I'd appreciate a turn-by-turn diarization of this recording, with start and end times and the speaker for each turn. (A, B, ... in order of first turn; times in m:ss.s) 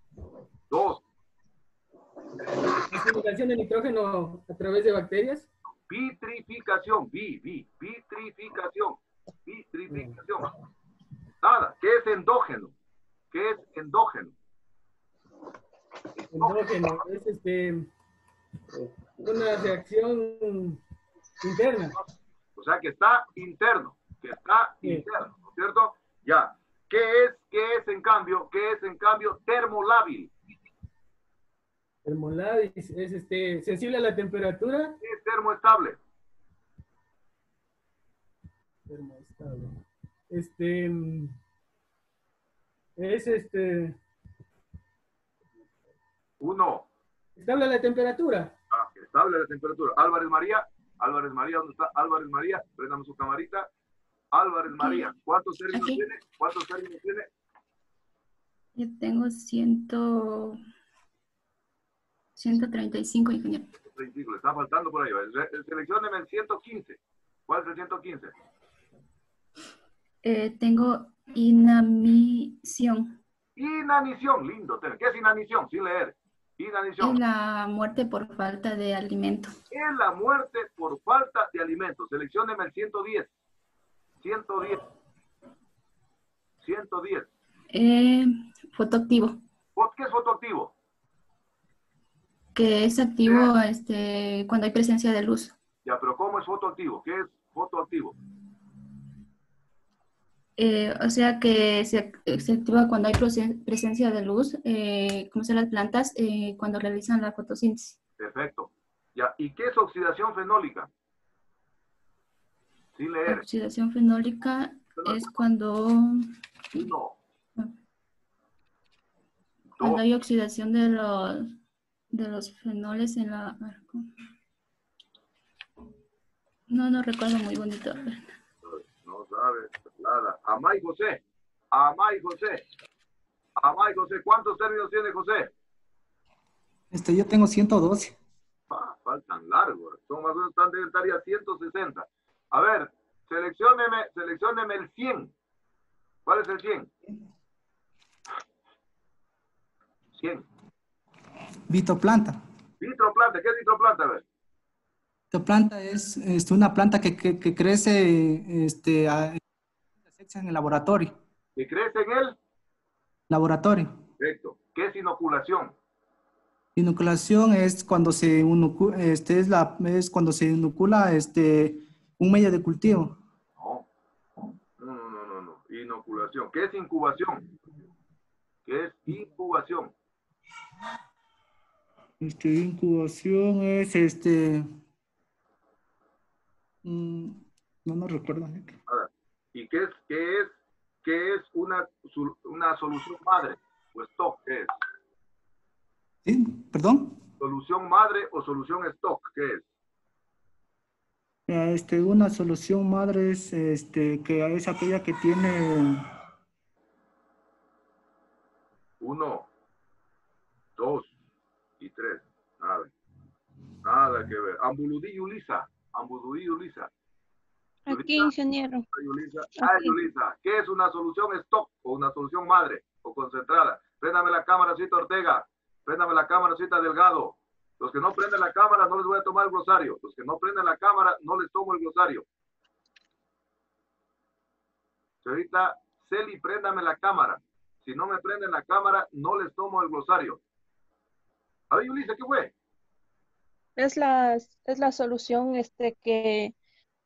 0:00.7-0:01.0 A
0:02.9-0:05.5 B
0:05.9-0:10.5 A
0:09.9-0:10.2 B
0:11.4-0:12.7 A
0:13.3-0:14.3 A
0:16.2-0:17.0 A
0:16.3-0:17.9 B
0:18.8-0:20.8 B
0:21.4-0:22.0 B
0:22.6-0:30.3 A
0:32.0-0:34.9 B
0:35.0-0:36.0 A
0:38.9-0:39.8 B
0:40.3-0:41.3 B
0:43.0-0:43.9 B
0:46.4-0:46.8 A
0:47.4-0:48.5 B
0:48.7-0:53.7 A
0:54.3-0:57.3 A
0:54.8-0:55.0 C
0:58.8-1:00.6 C
1:02.4-1:03.7 C
1:03.9-1:08.3 A
1:10.2-1:13.2 C
1:13.6-1:17.2 A
1:17.0-1:19.6 C
1:19.7-1:23.3 A
1:24.2-1:24.8 A
1:26.6-1:27.3 A
1:27.7-1:29.4 C
1:29.8-1:30.7 A
1:32.5-1:35.5 C
1:33.2-1:33.5 A
1:35.8-1:38.1 A
1:40.6-1:48.0 C
1:48.2-1:50.9 A
1:53.0-1:53.4 A
1:53.2-1:56.2 C
1:55.0-1:55.3 A
1:56.7-1:57.2 A
1:59.8-2:01.5 C
2:02.1-2:04.0 C
2:06.7-2:08.3 C
2:08.6-2:12.6 A
2:13.6-2:15.5 A
2:16.9-2:18.1 D
2:18.7-2:25.3 A
2:26.2-2:26.9 A
2:30.2-2:30.4 A
2:31.7-2:32.4 D
2:32.8-2:34.2 A
2:35.3-2:39.4 D
2:40.2-2:41.1 D
2:41.6-2:42.3 A
2:43.3-2:44.0 D
2:44.2-2:45.7 A
2:46.8-2:53.2 D
2:53.6-2:53.8 A
2:54.8-2:57.4 A
2:58.6-2:59.9 A
3:02.2-3:04.7 D
3:06.8-3:08.8 D
3:08.9-3:14.7 A
3:16.2-3:17.2 D
3:17.4-3:19.6 A
3:21.5-3:26.0 D
3:29.0-3:29.5 A
3:30.8-3:31.1 A
3:31.8-3:32.9 A
3:33.8-3:36.9 A
3:37.8-3:38.8 E
3:37.9-3:38.3 A
3:38.9-3:52.2 A
3:39.6-3:40.0 E
3:55.2-4:00.4 A
4:01.7-4:02.5 A
4:03.8-4:06.5 E